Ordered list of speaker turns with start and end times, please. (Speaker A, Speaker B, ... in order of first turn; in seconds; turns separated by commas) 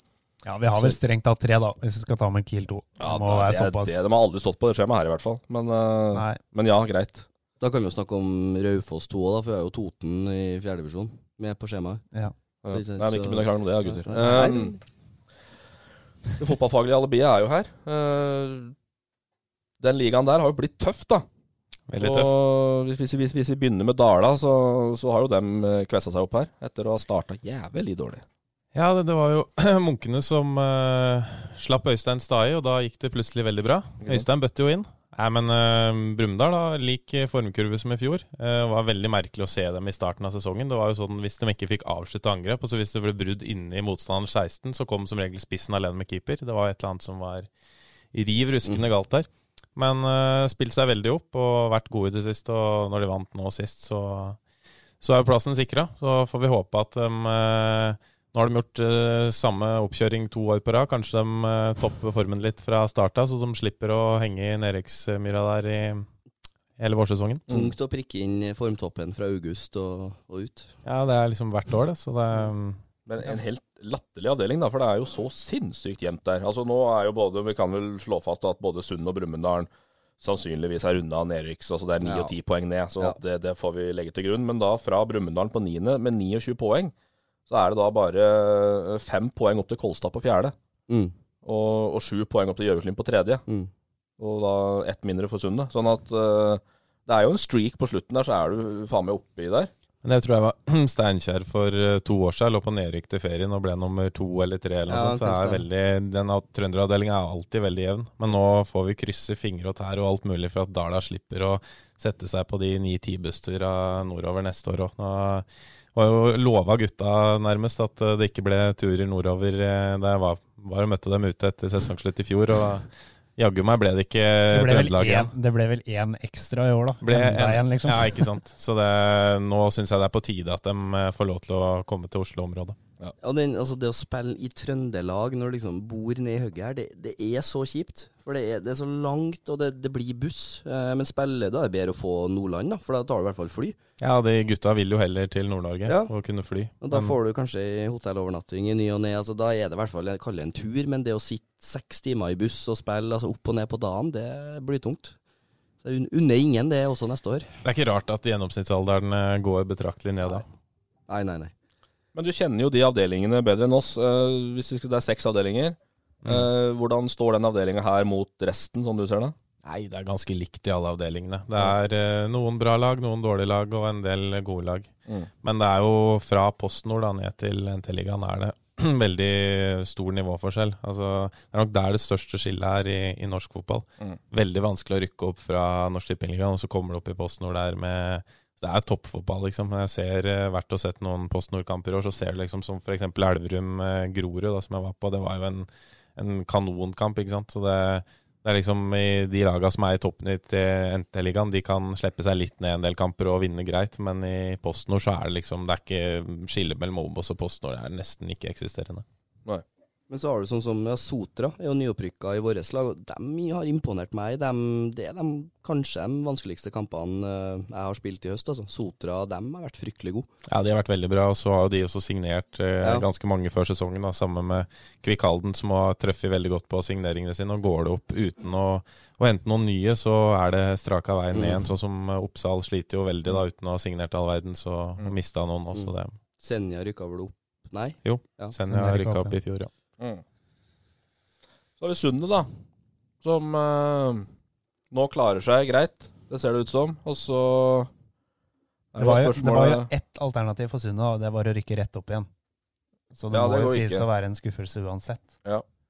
Speaker A: 0.5-4.0, Speaker B: 3.0-7.3, Speaker A: 6.1-6.4, Speaker C: 7.6-12.0, Speaker B: 12.7-14.8, Speaker C: 12.7-14.8, Speaker B: 16.4-18.7, Speaker B: 19.8-21.2, Speaker D: 21.9-22.3, Speaker B: 22.0-28.2, Speaker D: 28.7-47.5, Speaker B: 34.0-34.3, Speaker D: 48.1-54.4, Speaker D: 55.0-66.1, Speaker D: 66.8-67.5, Speaker C: 67.5-70.7, Speaker D: 70.8-72.8, Speaker B: 73.1-79.7, Speaker B: 80.2-86.9, Speaker C: 82.0-82.3, Speaker B: 87.5-90.5, Speaker C: 90.9-91.1, Speaker B: 91.4-93.4, Speaker B: 94.2-99.7, Speaker D: 100.0-122.9, Speaker C: 104.9-105.7, Speaker D: 123.4-125.3, Speaker A: 124.5-128.3, Speaker D: 127.0-132.8, Speaker C: 133.2-143.8, Speaker D: 144.0-147.1, Speaker C: 145.9-146.1, Speaker C: 146.8-155.2, Speaker C: 155.8-157.5, Speaker D: 157.6-160.4, Speaker C: 161.1-161.5, Speaker B: 162.1-169.3, Speaker D: 166.2-166.5, Speaker D: 169.7-174.9, Speaker D: 175.4-209.0, Speaker C: 210.1-220.3, Speaker D: 220.5-236.2, Speaker C: 231.3-231.7, Speaker C: 235.7-238.6, Speaker D: 238.0-239.7, Speaker A: 238.7-239.4, Speaker B: 241.8-242.5, Speaker B: 243.2-244.3, Speaker B: 244.9-247.9, Speaker B: 248.9-249.9, Speaker A: 249.0-252.3, Speaker A: 253.1-255.3, Speaker B: 253.3-254.1